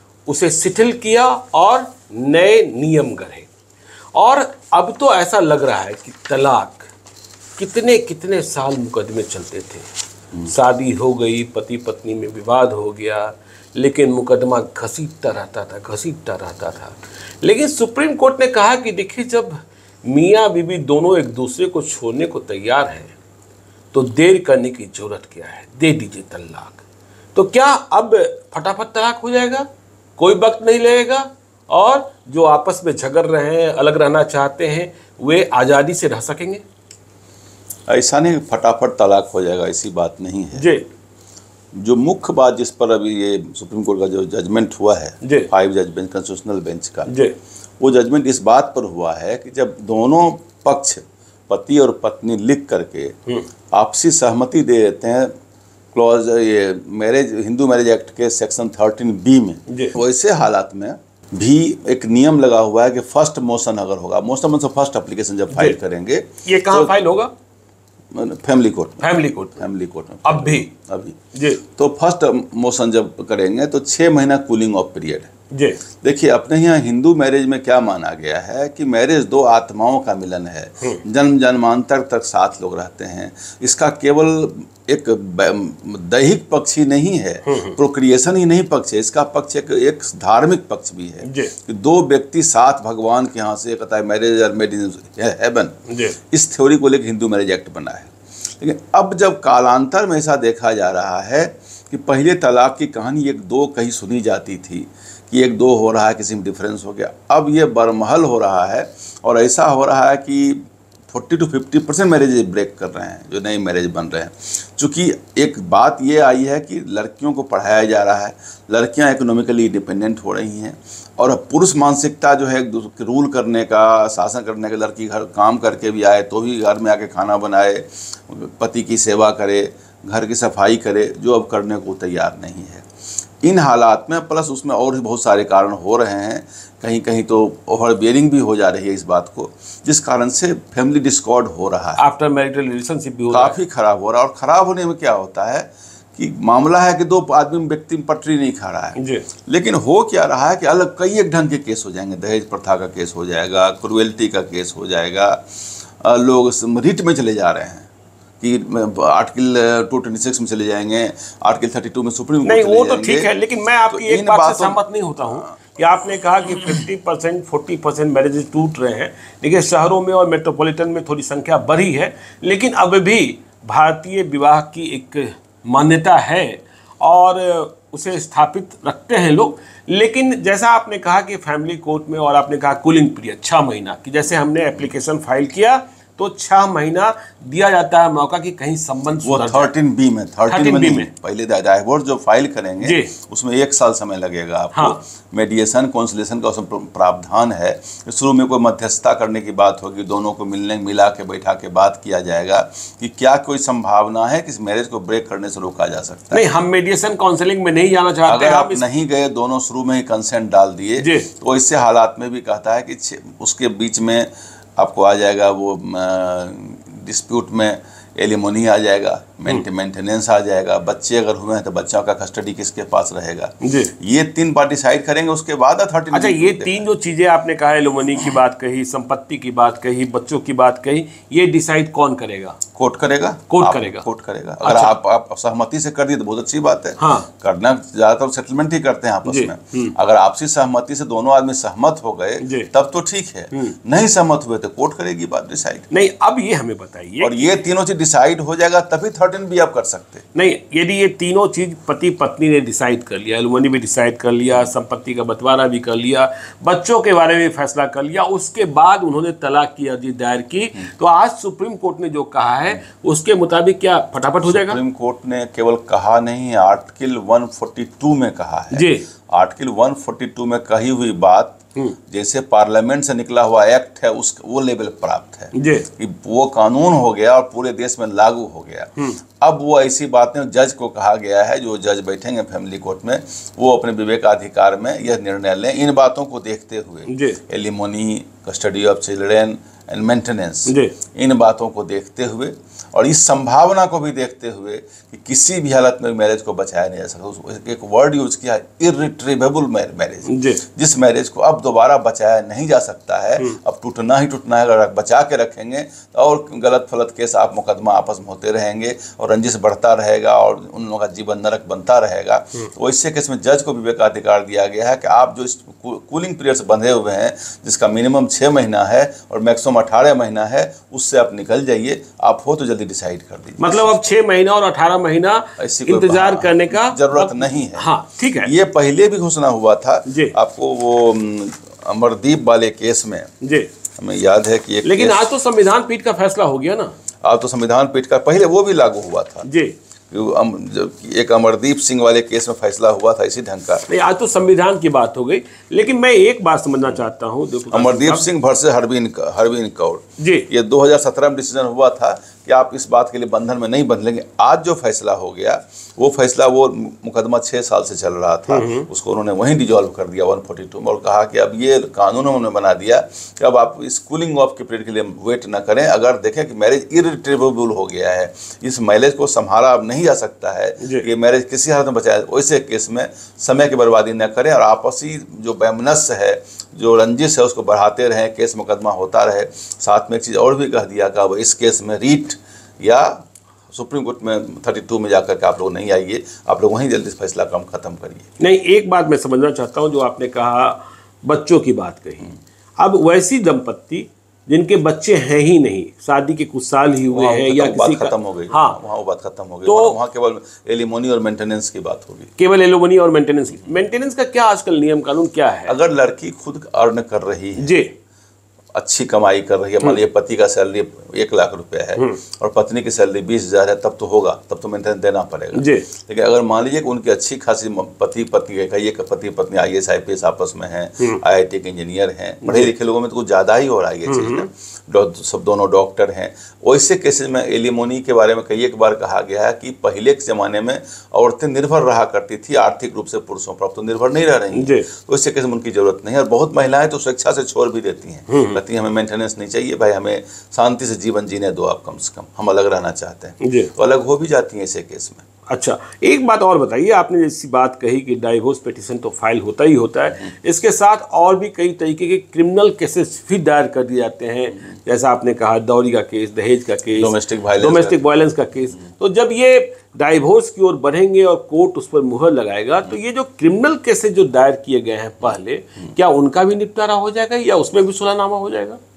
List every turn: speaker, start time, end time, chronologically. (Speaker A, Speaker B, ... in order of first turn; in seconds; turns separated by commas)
Speaker A: 0.2-3.5, Speaker A: 4.1-6.9, Speaker A: 7.6-9.9, Speaker A: 10.4-23.1, Speaker A: 23.9-26.8, Speaker A: 27.3-29.6, Speaker A: 30.2-36.6, Speaker B: 37.9-40.7, Speaker A: 40.5-40.9, Speaker B: 41.7-47.1, Speaker A: 45.2-45.5, Speaker A: 47.1-47.3, Speaker B: 47.8-53.1, Speaker B: 53.7-55.3, Speaker B: 55.9-66.9, Speaker A: 59.7-59.9, Speaker A: 65.5-65.8, Speaker A: 66.4-67.3, Speaker B: 68.1-71.2, Speaker A: 69.0-69.6, Speaker A: 70.2-70.7, Speaker A: 71.3-71.6, Speaker B: 71.8-75.3, Speaker A: 75.5-75.8, Speaker B: 76.0-95.8, Speaker A: 87.5-87.8, Speaker A: 91.2-91.5, Speaker A: 95.9-96.2, Speaker B: 96.3-132.8, Speaker B: 133.4-142.0, Speaker A: 142.0-143.6, Speaker B: 143.3-155.4, Speaker A: 149.0-149.2, Speaker B: 156.0-157.9, Speaker B: 158.4-163.3, Speaker A: 162.4-189.7, Speaker B: 163.9-165.5, Speaker B: 189.2-206.4, Speaker A: 190.5-191.1, Speaker A: 192.8-193.1, Speaker A: 206.3-208.8, Speaker B: 208.3-226.8, Speaker A: 211.0-211.3, Speaker A: 223.6-223.9, Speaker A: 226.1-232.6, Speaker B: 232.7-245.9, Speaker A: 233.5-234.0, Speaker A: 234.6-234.9, Speaker A: 237.0-237.3, Speaker A: 239.2-239.9, Speaker A: 242.4-242.7, Speaker A: 245.9-247.5, Speaker B: 247.2-250.2, Speaker A: 250.3-264.8, Speaker B: 264.5-271.6, Speaker A: 268.7-269.1, Speaker B: 272.1-324.0, Speaker A: 275.5-275.9, Speaker A: 287.1-287.4, Speaker A: 290.7-291.0, Speaker A: 300.3-300.6, Speaker A: 323.6-328.5, Speaker B: 325.6-327.9, Speaker B: 328.4-333.3, Speaker A: 330.1-330.3, Speaker A: 333.4-333.7, Speaker B: 334.0-335.3, Speaker A: 334.8-336.9, Speaker B: 337.2-339.5, Speaker A: 339.4-339.7, Speaker B: 340.1-343.9, Speaker A: 343.9-348.3, Speaker B: 347.7-388.3, Speaker A: 350.2-350.5, Speaker A: 358.5-358.9, Speaker A: 370.8-371.1, Speaker A: 388.4-398.8, Speaker B: 397.1-402.3, Speaker A: 399.6-400.0, Speaker A: 402.4-405.7, Speaker B: 405.6-407.8, Speaker A: 407.6-407.9, Speaker B: 408.7-445.2, Speaker A: 415.5-415.9, Speaker A: 422.4-422.7, Speaker A: 424.1-424.5, Speaker A: 434.5-434.9, Speaker A: 438.3-438.6, Speaker A: 443.4-443.7, Speaker A: 445.5-468.8, Speaker B: 456.9-458.0